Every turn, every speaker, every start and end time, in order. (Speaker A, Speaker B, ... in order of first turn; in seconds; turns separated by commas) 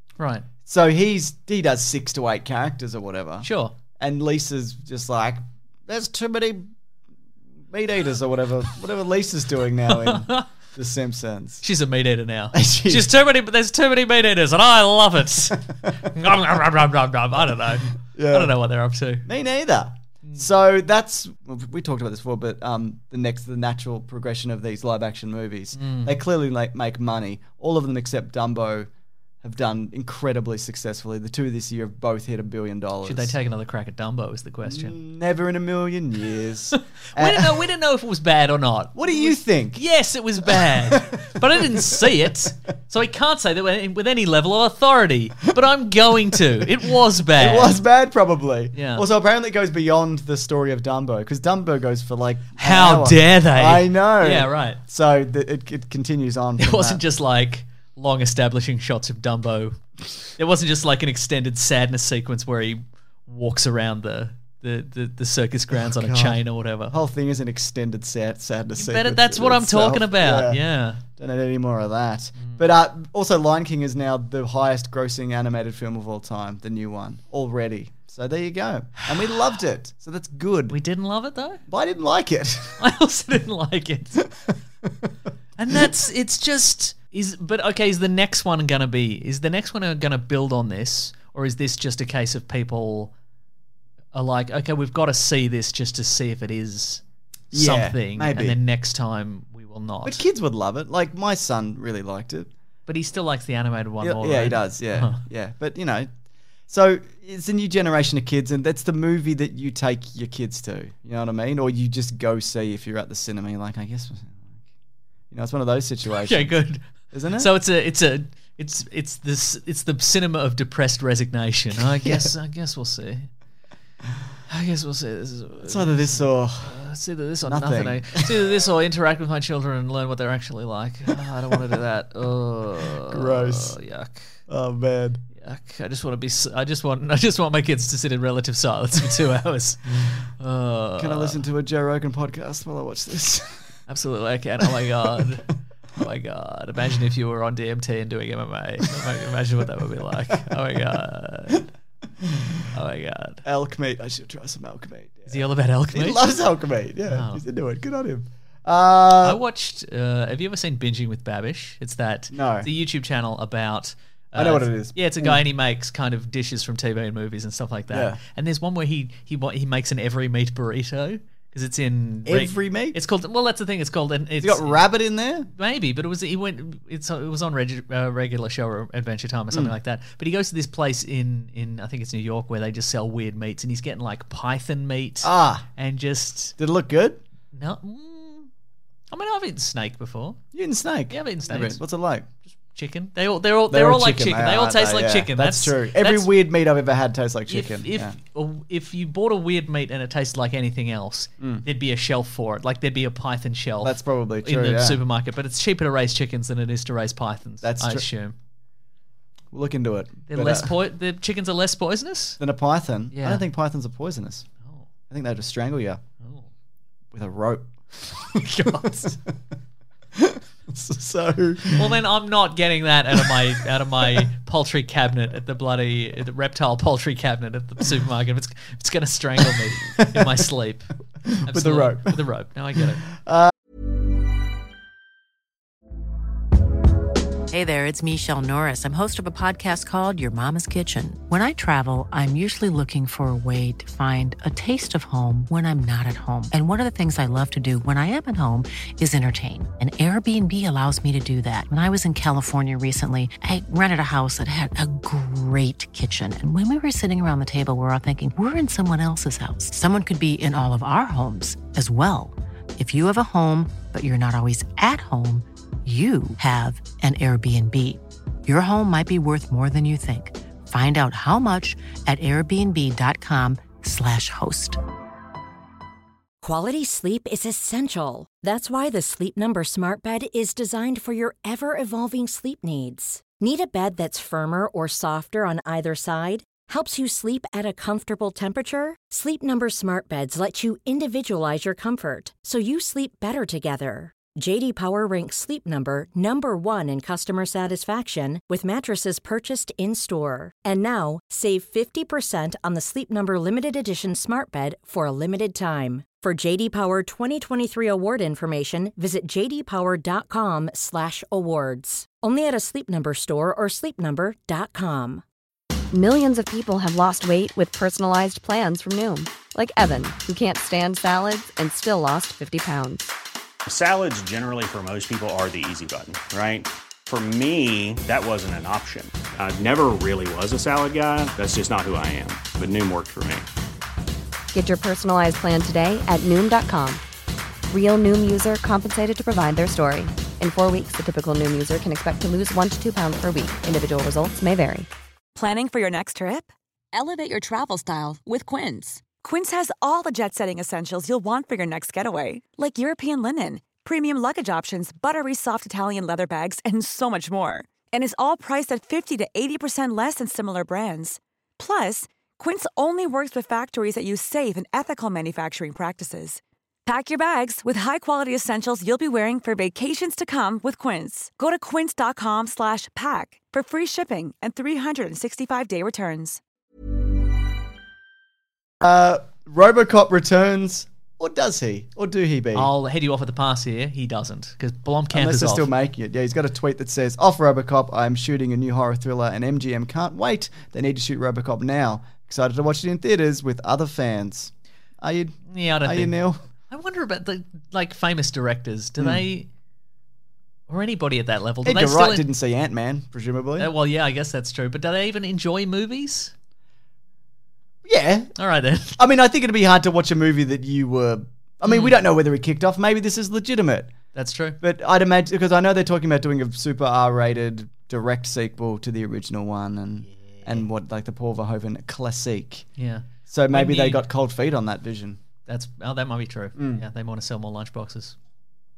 Speaker A: 0.2-0.5, Speaker B: 0.7-3.5, Speaker A: 3.4-3.7, Speaker B: 4.0-6.7, Speaker B: 7.7-11.6, Speaker A: 9.9-10.5, Speaker A: 11.6-19.3, Speaker B: 12.5-13.1, Speaker B: 18.1-18.5, Speaker B: 19.3-28.9, Speaker A: 25.8-26.2, Speaker B: 29.4-33.4, Speaker A: 33.0-35.0, Speaker B: 34.6-37.7, Speaker A: 36.7-47.8, Speaker B: 39.0-39.9, Speaker B: 40.4-42.1, Speaker B: 47.3-57.0, Speaker A: 48.8-49.1, Speaker A: 52.6-54.8, Speaker A: 56.6-59.8, Speaker A: 60.4-67.0, Speaker B: 65.7-70.6, Speaker A: 68.8-71.0, Speaker B: 71.2-80.8, Speaker A: 80.7-81.6, Speaker B: 81.7-82.8, Speaker A: 82.8-84.3, Speaker B: 84.8-85.1, Speaker A: 85.6-93.1, Speaker A: 94.1-97.0, Speaker B: 97.5-98.6, Speaker A: 97.5-100.2, Speaker B: 100.0-102.5, Speaker A: 102.9-105.2, Speaker B: 104.0-106.1, Speaker B: 106.7-114.6, Speaker B: 115.3-116.6, Speaker A: 116.1-116.8, Speaker B: 117.1-117.5, Speaker A: 117.4-123.3, Speaker B: 122.0-122.3, Speaker A: 124.5-134.4, Speaker B: 125.6-126.8, Speaker B: 127.5-128.5, Speaker B: 131.2-131.6, Speaker B: 133.0-133.8, Speaker B: 134.5-135.2, Speaker A: 135.4-141.4, Speaker B: 141.0-143.7, Speaker A: 143.9-151.6, Speaker B: 150.1-150.5, Speaker B: 152.2-152.7, Speaker A: 152.7-153.4, Speaker B: 153.4-155.4, Speaker A: 155.3-156.3, Speaker B: 155.9-159.4, Speaker A: 157.1-157.4, Speaker A: 159.2-174.8, Speaker B: 162.3-162.7, Speaker B: 164.4-165.4, Speaker B: 167.9-168.2, Speaker B: 172.3-173.0, Speaker B: 174.4-175.5, Speaker A: 175.6-186.6, Speaker B: 185.2-185.7, Speaker B: 186.6-187.2, Speaker A: 187.5-188.5, Speaker A: 189.1-190.4, Speaker B: 190.5-192.3, Speaker A: 191.1-191.8, Speaker A: 192.6-196.3, Speaker B: 193.7-198.2, Speaker A: 197.5-208.3, Speaker B: 203.8-205.0, Speaker B: 207.6-208.1, Speaker B: 209.5-210.7, Speaker A: 210.3-212.4, Speaker B: 212.4-214.5, Speaker A: 213.1-213.4, Speaker B: 215.1-216.0, Speaker A: 216.2-216.5, Speaker B: 217.1-219.2, Speaker A: 218.4-219.2, Speaker B: 220.1-222.0, Speaker A: 221.8-233.1, Speaker B: 223.1-223.5, Speaker B: 224.0-224.3, Speaker B: 230.0-230.3, Speaker B: 231.2-232.2, Speaker B: 232.8-233.5, Speaker C: 237.5-274.8, Speaker D: 276.4-315.2, Speaker E: 315.9-323.1, Speaker F: 323.7-333.5, Speaker E: 334.5-337.0, Speaker E: 337.7-344.9, Speaker G: 345.4-376.4, Speaker B: 378.8-382.7, Speaker A: 382.6-385.7, Speaker B: 385.1-396.4, Speaker A: 395.5-396.2, Speaker A: 396.7-399.5, Speaker A: 400.7-402.3, Speaker B: 401.6-403.7, Speaker A: 403.6-406.3, Speaker B: 407.9-408.3, Speaker A: 408.4-409.0, Speaker B: 409.0-413.9, Speaker A: 411.7-412.0, Speaker A: 414.1-414.6, Speaker B: 414.6-422.7, Speaker A: 422.8-424.0, Speaker B: 423.3-425.2, Speaker A: 425.5-428.2, Speaker B: 426.6-426.8